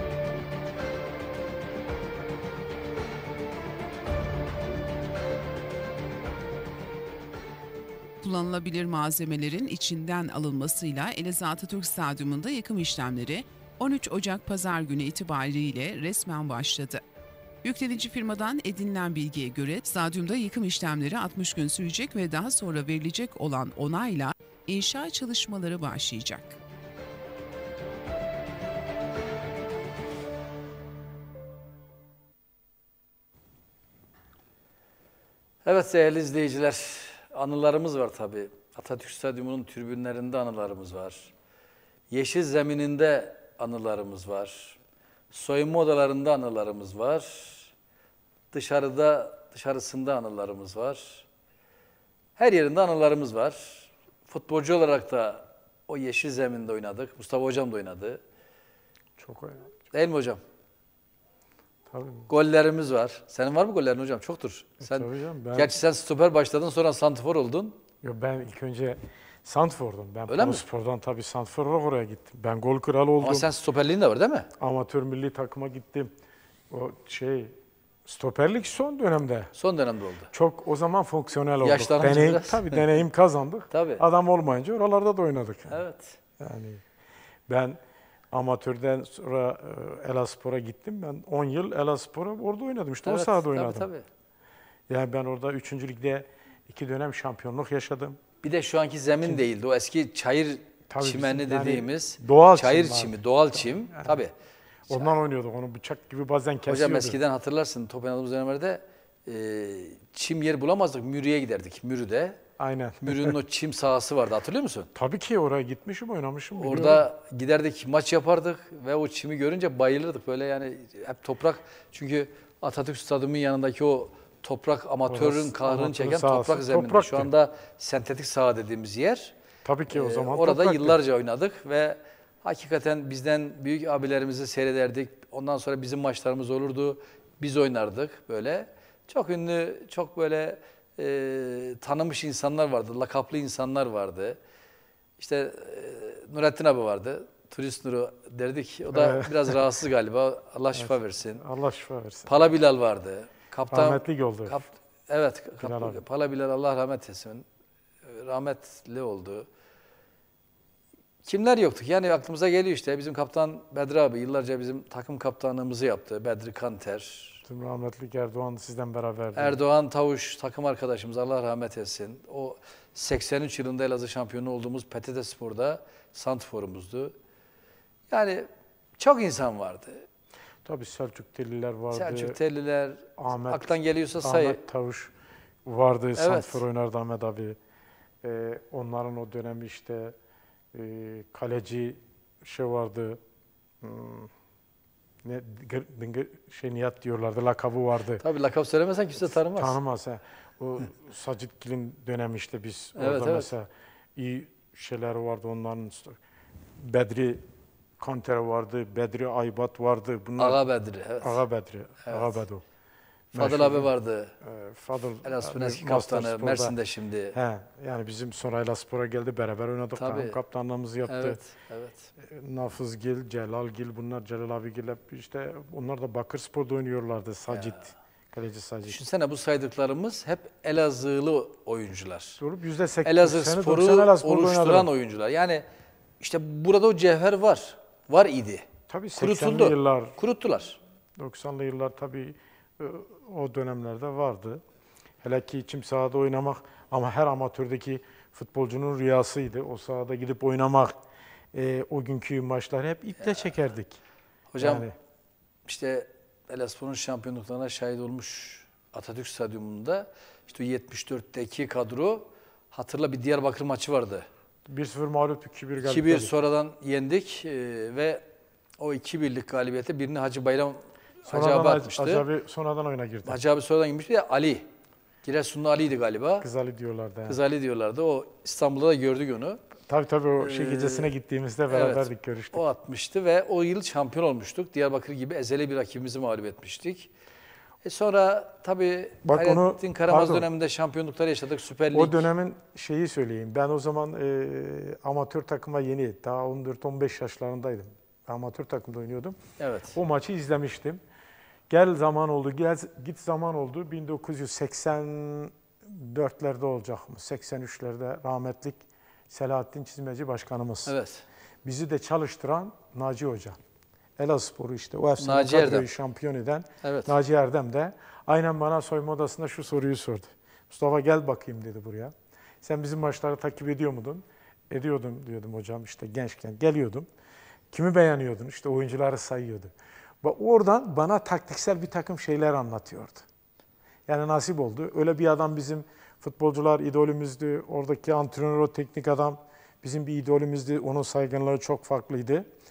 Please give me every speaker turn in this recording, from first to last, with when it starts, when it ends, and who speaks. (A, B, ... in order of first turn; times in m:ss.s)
0:08.2-0:17.0 A
0:17.6-0:26.6 A
0:35.6-0:41.3 B
0:42.1-0:44.8 B
0:45.3-0:47.7 B
0:48.5-0:51.2 B
0:52.4-0:58.2 B
0:59.2-0:59.7 C
0:59.9-1:00.4 B
1:01.9-1:02.3 C
1:02.3-1:07.8 B
1:04.8-1:05.7 C
1:08.0-1:13.5 C
1:10.3-1:10.6 B
1:13.2-1:14.5 B
1:14.6-1:16.1 C
1:16.7-1:19.5 C
1:19.5-1:20.3 B
1:20.3-1:25.8 C
1:21.6-1:23.0 B
1:23.7-1:24.0 B
1:25.7-1:26.2 B
1:26.4-1:26.8 C
1:27.5-1:27.8 C
1:28.3-1:33.9 C
1:33.0-1:34.0 B
1:34.9-1:38.2 C
1:38.4-1:44.3 B
1:40.9-1:44.2 C
1:44.9-1:47.2 C
1:46.7-1:52.4 B
1:52.6-1:53.4 C
1:53.0-1:54.9 B
1:54.9-1:57.1 C
1:56.6-2:09.3 B
2:05.1-2:07.3 C
2:09.6-2:11.0 C
2:09.9-2:24.4 B
2:25.2-2:31.4 B
2:28.9-2:29.6 C
2:30.7-2:32.5 C
2:32.3-2:37.4 B
2:33.7-2:34.7 C
2:35.6-2:36.0 C
2:38.0-2:39.5 B
2:41.2-2:47.4 B
2:47.4-2:49.6 C
2:49.3-2:57.1 B
2:58.1-3:00.0 B
3:00.6-3:02.4 C
3:01.9-3:04.6 B
3:03.2-3:05.1 C
3:05.6-3:07.6 C
3:06.2-3:06.6 B
3:08.2-3:10.1 C
3:10.7-3:13.2 C
3:13.8-3:14.3 C
3:15.2-3:18.2 C
3:18.2-3:19.8 B
3:19.2-3:26.2 C
3:23.0-3:23.5 B
3:26.8-3:27.4 C
3:28.0-3:30.6 C
3:30.4-3:31.4 B
3:31.2-3:32.6 C
3:32.0-3:32.4 B
3:33.3-3:34.3 B
3:33.3-3:33.9 C
3:34.4-3:36.7 C
3:35.2-3:37.4 B
3:37.3-3:41.4 C
3:40.0-3:40.4 B
3:41.0-3:42.1 B
3:42.2-3:49.0 C
3:47.5-3:47.8 B
3:48.9-3:52.4 B
3:52.4-3:54.9 C
3:53.0-3:55.6 B
3:56.2-4:00.8 B
3:58.9-4:00.2 C
4:01.2-4:04.6 C
4:05.2-4:11.0 C
4:11.5-4:14.0 C
4:14.5-4:14.9 B
4:14.6-4:14.9 C
4:15.7-4:24.3 B
4:24.7-4:26.3 C
4:25.8-4:28.2 B
4:28.8-4:32.3 B
4:31.3-4:33.4 C
4:33.2-4:34.7 B
4:35.2-4:36.5 B
4:36.4-4:37.4 C
4:37.3-4:39.6 B
4:39.9-4:42.6 C
4:40.4-4:41.1 B
4:41.7-4:47.1 B
4:47.8-4:52.3 B
4:49.2-4:50.5 C
4:51.9-4:59.4 C
4:59.6-5:00.0 B
4:59.9-5:01.0 C
5:01.7-5:11.0 C
5:10.8-5:11.2 B
5:11.6-5:13.6 C
5:14.2-5:27.1 C
5:15.2-5:15.9 B
5:16.8-5:17.1 B
5:27.7-5:33.2 C
5:34.1-5:42.5 C